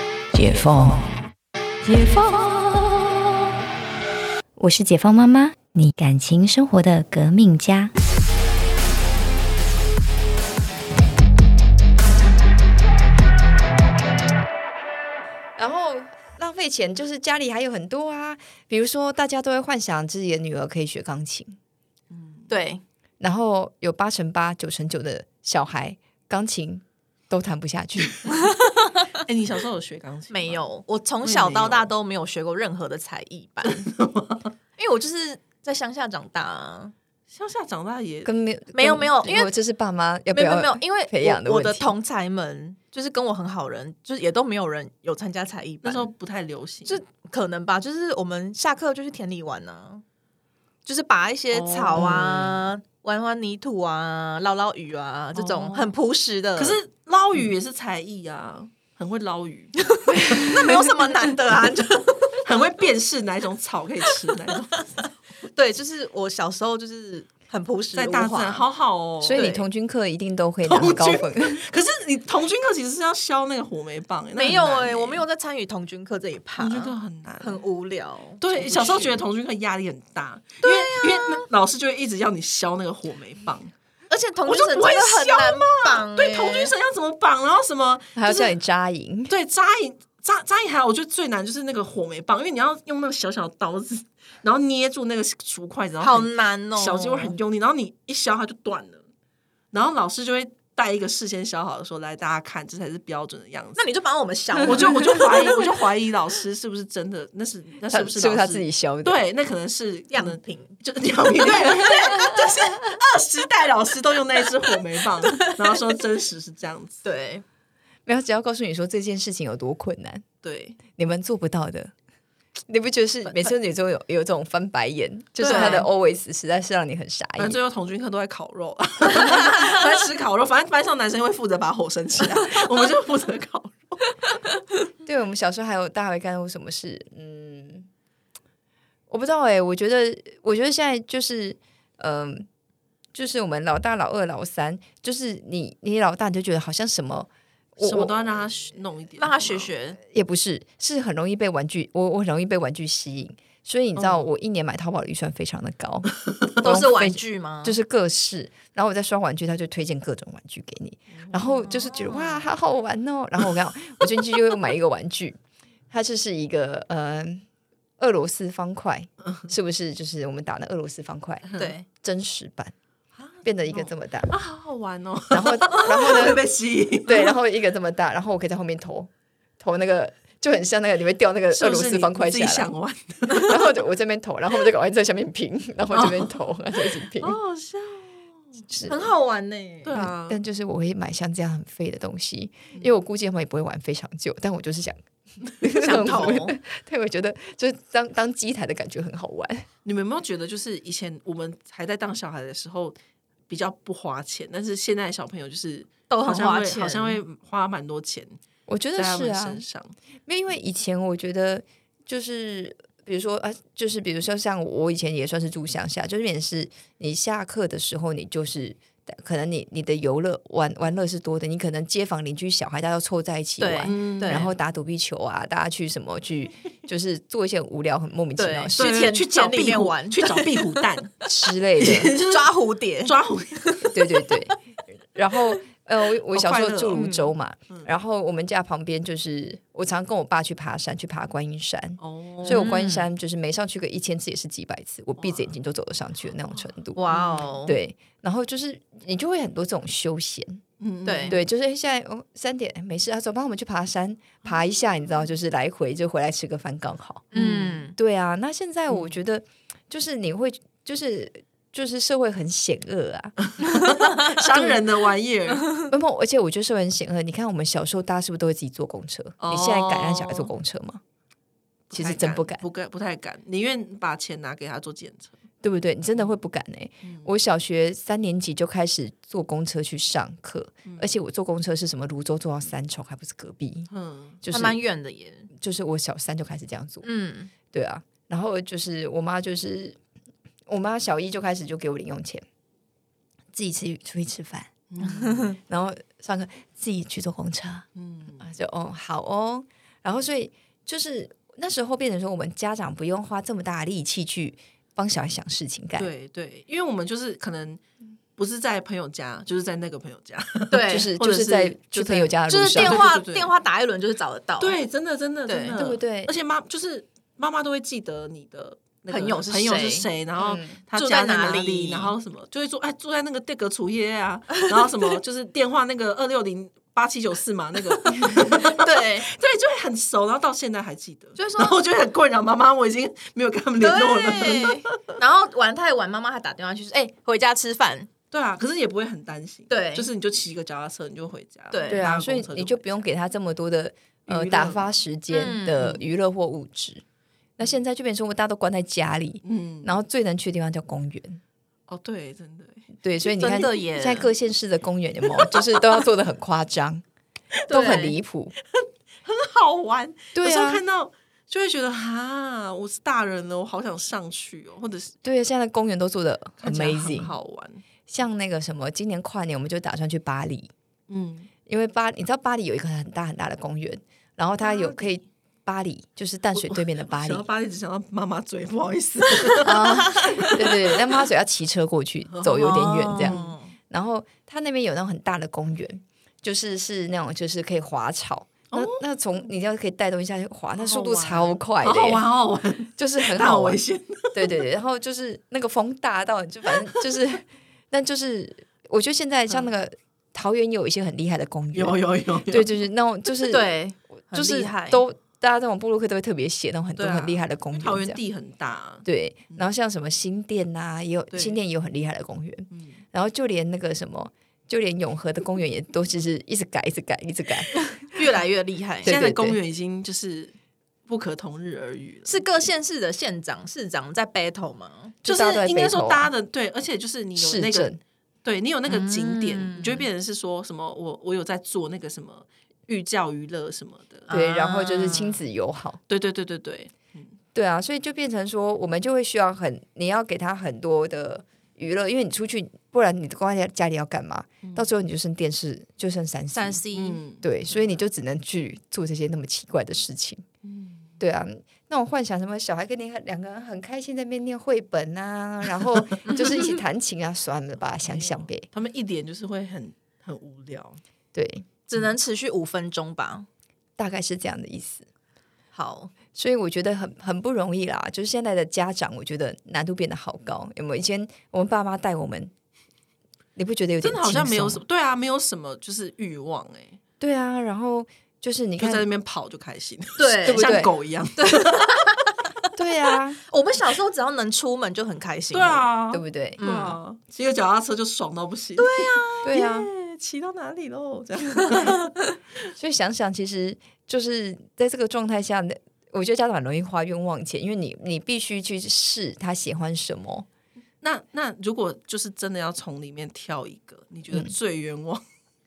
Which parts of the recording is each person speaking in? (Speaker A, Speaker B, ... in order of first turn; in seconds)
Speaker A: 0.3-0.9, 4.6-7.9
Speaker B: 0.4-1.0, 1.8-3.1, 15.6-21.6, 23.2-28.3, 38.2-41.9, 69.2-71.6, 88.2-89.3, 107.9-109.2, 118.0-120.2, 120.9-121.9, 122.7-127.6, 135.0-137.9, 139.1-142.5, 143.1-148.4, 150.1-165.4, 165.9-167.4, 168.0-171.4, 172.0-172.7, 173.4-174.3, 175.3-176.4, 177.1-179.1, 179.6-182.7, 183.4-187.4, 188.7-189.1, 189.9-199.7, 208.7-209.6, 210.3-229.0, 231.3-232.2, 233.8-234.6, 235.1-247.0, 247.6-250.6, 251.3-257.4, 257.9-263.4, 264.4-264.8, 265.9-271.0, 271.9-272.6, 275.6-283.9, 284.4-284.8, 285.6-287.1, 287.7-290.0, 290.7-292.4, 293.5-294.7, 295.7-297.9, 298.4-306.1, 310.9-313.0, 315.7-316.3, 320.4-320.8, 341.9-347.0, 347.6-351.4, 353.0-357.0, 357.7-358.5, 360.4-360.8, 365.2-367.3, 368.1-370.7, 371.6-377.5, 379.6-383.4, 383.9-392.3, 393.0-393.8, 394.3-402.0, 402.5-403.7, 404.3-408.2, 409.0-418.1, 419.0-419.6, 425.2-426.3, 427.4-428.0, 434.3-436.0, 437.5-446.8, 447.4-450.4, 451.2-458.7, 461.3-461.6, 464.0-465.1, 466.3-472.5, 473.6-474.8, 477.2-479.1, 480.4-480.9, 482.8-483.4, 486.1-486.6, 489.4-489.9, 492.7-500.4
Speaker C: 22.1-22.5, 29.2-30.6, 31.2-31.9, 33.6-34.5, 37.3-38.3, 45.8-47.0, 51.5-52.6, 55.3-55.9, 56.5-60.6, 62.4-64.9, 67.9-69.5, 70.6-75.2, 76.6-77.7, 78.4-83.7, 84.4-88.6, 89.3-99.0, 99.7-103.8, 104.6-117.0, 120.4-120.8, 123.2-123.5, 125.4-125.8, 127.4-134.3, 147.8-149.7, 154.0-154.2, 161.1-161.5, 171.4-171.7, 173.2-177.3, 181.5-183.7, 185.9-186.4, 187.2-188.6, 189.8-190.4, 199.8-203.0, 203.5-208.4, 208.9-209.9, 223.9-224.5, 228.8-231.2, 231.8-233.9, 236.3-237.1, 242.0-242.7, 247.1-247.5, 250.8-251.4, 257.3-257.8, 258.9-259.2, 263.5-265.7, 269.4-270.5, 271.9-275.4, 277.0-277.3, 280.9-281.1, 283.9-284.4, 294.9-295.5, 297.9-298.5, 306.0-307.8, 308.4-313.5, 314.6-334.9, 338.3-343.1, 344.3-344.9, 349.4-350.0, 351.9-352.9, 355.4-355.8, 359.2-365.1, 366.6-367.8, 371.1-371.5, 374.6-375.2, 376.6-381.0, 382.3-383.6, 388.7-389.4, 390.7-394.7, 401.7-402.8, 406.9-409.7, 411.3-411.6, 412.7-413.0, 419.1-420.5, 421.1-422.6, 425.2-434.3, 436.1-437.3, 444.6-444.9, 446.9-448.0, 450.6-451.1, 458.0-461.0, 474.0-477.0, 478.8-481.9, 485.5-492.1, 501.0-505.2
Speaker D: 22.5-22.8, 30.3-33.8, 34.8-36.9, 38.7-39.5, 40.3-46.1, 46.9-50.0, 50.8-56.8, 60.1-62.4, 65.5-68.6, 69.3-69.7, 74.3-79.2, 80.6-81.4, 84.1-86.7, 96.0-97.3, 103.8-105.7, 110.1-110.8, 115.3-115.6, 117.0-117.4, 125.4-125.9, 149.2-150.0, 156.6-157.8, 161.6-162.5, 171.6-171.8, 188.8-190.0, 195.7-196.6, 206.1-207.2, 223.6-224.5, 228.4-230.8, 232.2-234.0, 236.9-237.3, 242.4-243.1, 246.9-247.8, 251.1-251.4, 257.3-257.9, 284.5-285.5, 287.0-287.5, 295.2-295.5, 310.7-311.1, 312.5-314.8, 315.4-315.8, 319.1-320.1, 320.9-322.1, 328.4-329.3, 331.4-331.8, 333.8-338.1, 339.7-340.1, 341.7-342.0, 345.3-346.0, 353.2-354.3, 357.7-358.2, 382.6-383.7, 403.5-405.0, 418.1-419.2, 422.2-425.1, 428.9-430.0, 434.3-435.4, 446.5-447.2, 461.9-463.5, 465.7-466.1, 480.2-480.8, 481.4-482.3, 483.5-485.9, 486.6-487.0, 488.8-489.5